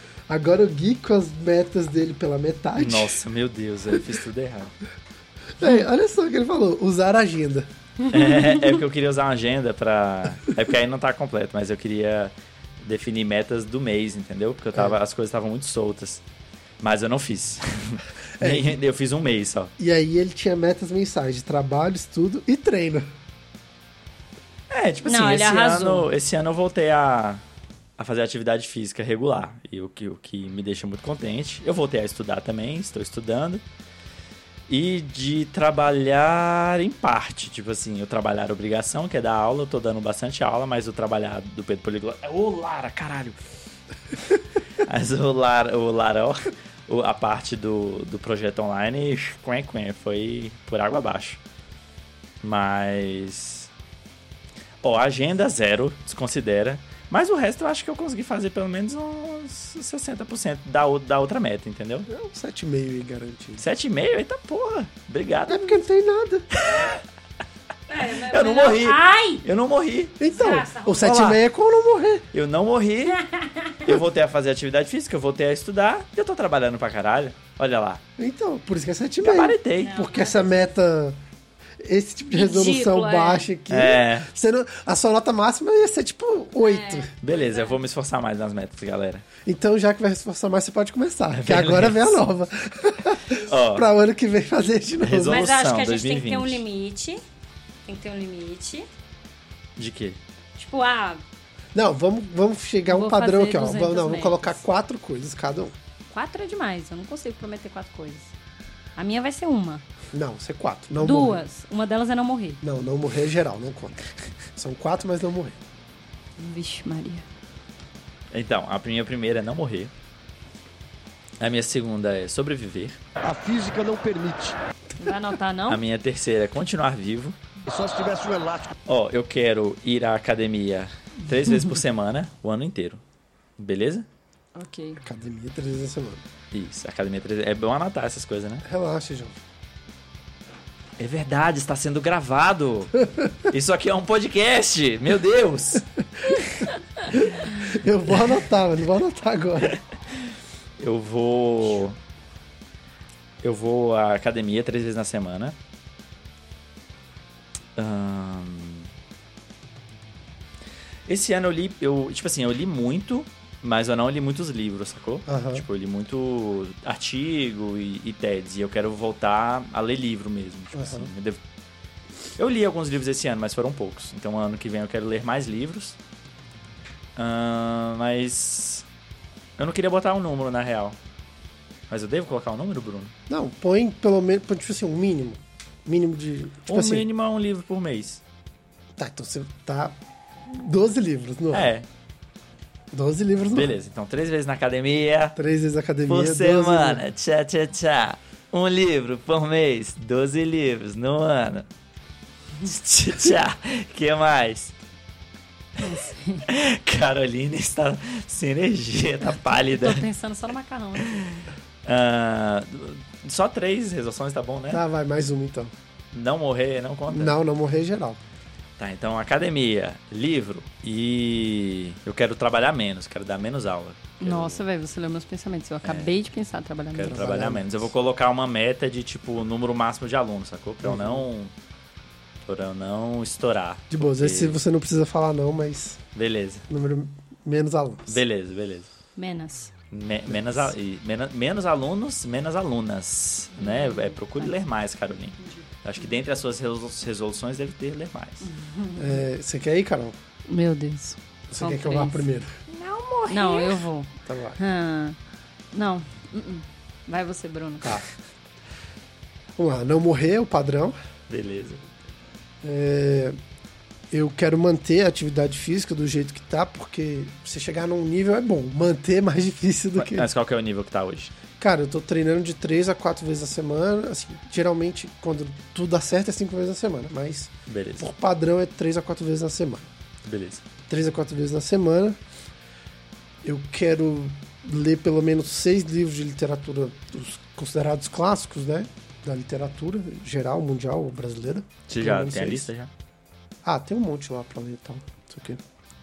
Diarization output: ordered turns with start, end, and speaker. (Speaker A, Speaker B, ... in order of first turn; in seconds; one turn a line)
Speaker A: 0.3-3.2
Speaker B: 2.8-4.7
Speaker A: 5.6-7.7
Speaker C: 8.0-8.6
Speaker B: 8.1-16.2
Speaker B: 16.8-19.7
Speaker A: 18.4-18.8
Speaker A: 19.8-23.1
Speaker B: 24.7-27.4
Speaker C: 25.1-26.1
Speaker B: 28.0-33.6
Speaker B: 34.7-43.4
Speaker B: 44.8-51.4
Speaker B: 52.4-53.7
Speaker B: 54.8-62.1
Speaker A: 62.1-63.6
Speaker B: 63.6-65.8
Speaker A: 65.5-66.5
Speaker B: 66.6-67.0
Speaker C: 67.9-69.5
Speaker B: 68.2-70.2
Speaker A: 70.2-72.3
Speaker C: 70.3-71.1
Speaker B: 71.0-71.4
Speaker B: 72.3-73.2
Speaker C: 73.1-73.9
Speaker B: 73.8-78.0
Speaker A: 78.2-81.2
Speaker B: 79.2-80.0
Speaker C: 79.8-80.7
Speaker A: 81.8-87.1
Speaker C: 82.3-83.5
Speaker B: 83.7-84.3
Speaker C: 86.6-87.8
Speaker B: 87.2-89.2
Speaker A: 89.5-95.5
Speaker B: 91.3-92.2
Speaker B: 93.5-93.9
Speaker B: 95.0-96.6
Speaker C: 95.2-97.2
Speaker C: 97.8-98.9
Speaker B: 99.8-100.2
Speaker C: 100.6-101.2
Speaker A: 101.7-105.8
Speaker C: 102.9-104.6
Speaker C: 106.1-108.3
Speaker C: 109.0-109.8
Speaker A: 110.1-111.5
Speaker C: 111.0-112.6
Speaker A: 112.6-114.0
Speaker A: 114.6-115.6
Speaker C: 116.4-117.2
Speaker B: 118.3-119.9
Speaker B: 121.4-123.0
Speaker D: 123.2-124.6
Speaker C: 125.0-125.8
Speaker B: 125.7-127.4
Speaker D: 127.7-128.7
Speaker B: 128.9-133.0
Speaker B: 133.6-134.1
Speaker C: 134.6-135.0
Speaker A: 135.0-136.2
Speaker B: 136.5-138.6
Speaker A: 138.6-139.4
Speaker B: 141.0-146.5
Speaker A: 147.1-149.8
Speaker B: 150.8-152.0
Speaker B: 153.4-155.6
Speaker B: 157.8-158.9
Speaker B: 161.1-171.4
Speaker A: 165.3-165.6
Speaker A: 170.7-171.1
Speaker B: 172.4-176.0
Speaker B: 177.2-178.8
Speaker B: 179.6-181.0
Speaker B: 181.9-183.1
Speaker A: 183.3-187.1
Speaker B: 186.7-188.2
Speaker A: 189.0-190.0
Speaker A: 190.5-191.7
Speaker B: 191.5-191.9
Speaker A: 192.9-193.8
Speaker B: 193.5-195.4
Speaker A: 195.4-197.0
Speaker B: 196.1-201.7
Speaker B: 202.6-204.8
Speaker C: 205.8-206.5
Speaker B: 206.5-210.0
Speaker C: 209.7-211.3
Speaker B: 211.8-214.8
Speaker A: 214.7-215.7
Speaker B: 216.1-217.4
Speaker A: 217.1-218.2
Speaker B: 218.8-224.6
Speaker C: 224.2-227.3
Speaker B: 225.8-226.1
Speaker B: 226.9-231.5
Speaker A: 227.0-227.8
Speaker A: 230.8-231.3
Speaker B: 232.4-234.6
Speaker A: 233.9-236.0
Speaker B: 236.2-236.7
Speaker A: 236.7-238.2
Speaker B: 238.1-238.9
Speaker C: 239.2-239.7
Speaker B: 239.9-248.5
Speaker C: 243.6-244.5
Speaker C: 245.4-245.7
Speaker C: 248.4-249.3
Speaker A: 249.0-250.2
Speaker C: 250.5-252.2
Speaker A: 251.5-252.6
Speaker B: 252.7-253.8
Speaker C: 253.3-255.2
Speaker A: 254.3-254.6
Speaker C: 255.7-258.0
Speaker A: 259.6-261.0
Speaker B: 261.3-261.8
Speaker A: 262.6-263.4
Speaker A: 264.1-270.3
Speaker B: 270.0-271.3
Speaker A: 271.6-279.9
Speaker B: 277.7-278.1
Speaker B: 280.2-280.6
Speaker A: 280.9-282.2
Speaker A: 283.4-292.7
Speaker B: 291.9-292.9
Speaker A: 293.6-295.6